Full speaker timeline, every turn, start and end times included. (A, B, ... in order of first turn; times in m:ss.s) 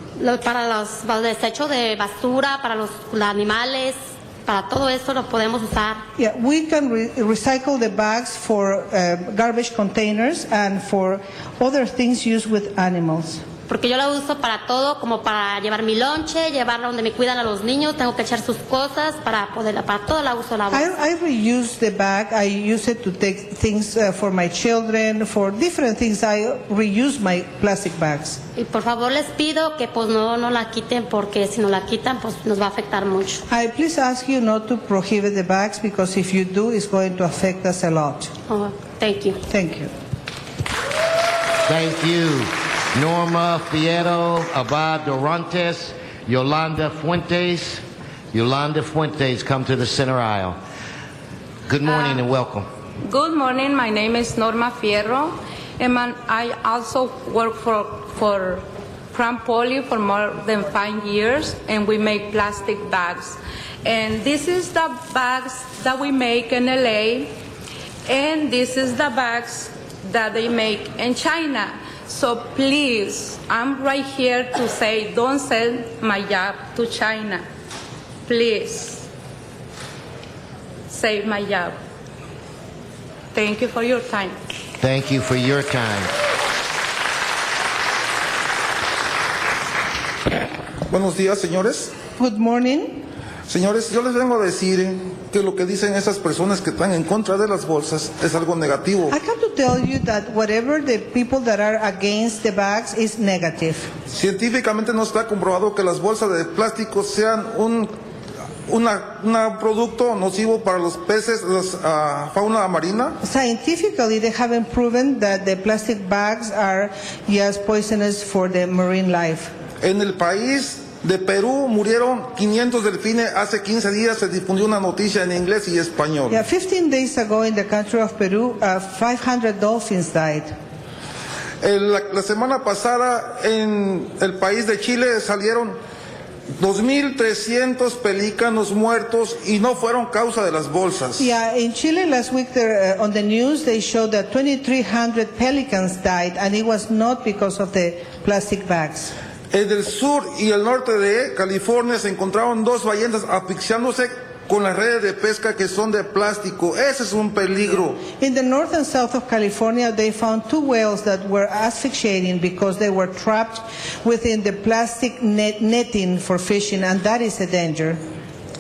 0:00.2-0:06.0 A
0:06.2-0:13.4 B
0:13.7-0:20.9 A
0:20.7-0:28.4 B
0:28.6-0:33.4 A
0:33.5-0:38.3 B
0:38.5-0:39.4 A
0:39.5-0:39.9 B
0:41.7-0:50.6 C
0:51.7-0:52.7 C
0:53.0-1:07.3 D
1:08.1-1:17.4 D
1:18.3-1:19.1 D
1:20.9-1:21.7 D
1:23.3-1:24.4 D
1:24.8-1:26.1 C
1:30.9-1:31.9 E
1:32.2-1:33.0 B
1:33.5-1:39.1 E
1:39.1-1:43.9 B
1:44.1-1:47.9 E
1:48.7-1:53.2 E
1:53.2-1:59.5 B
1:59.8-2:06.4 E
2:06.3-2:10.5 B
2:11.6-2:15.8 E
2:16.6-2:21.2 E
2:21.2-2:29.1 B
2:29.5-2:38.0 E
2:38.1-2:48.0 B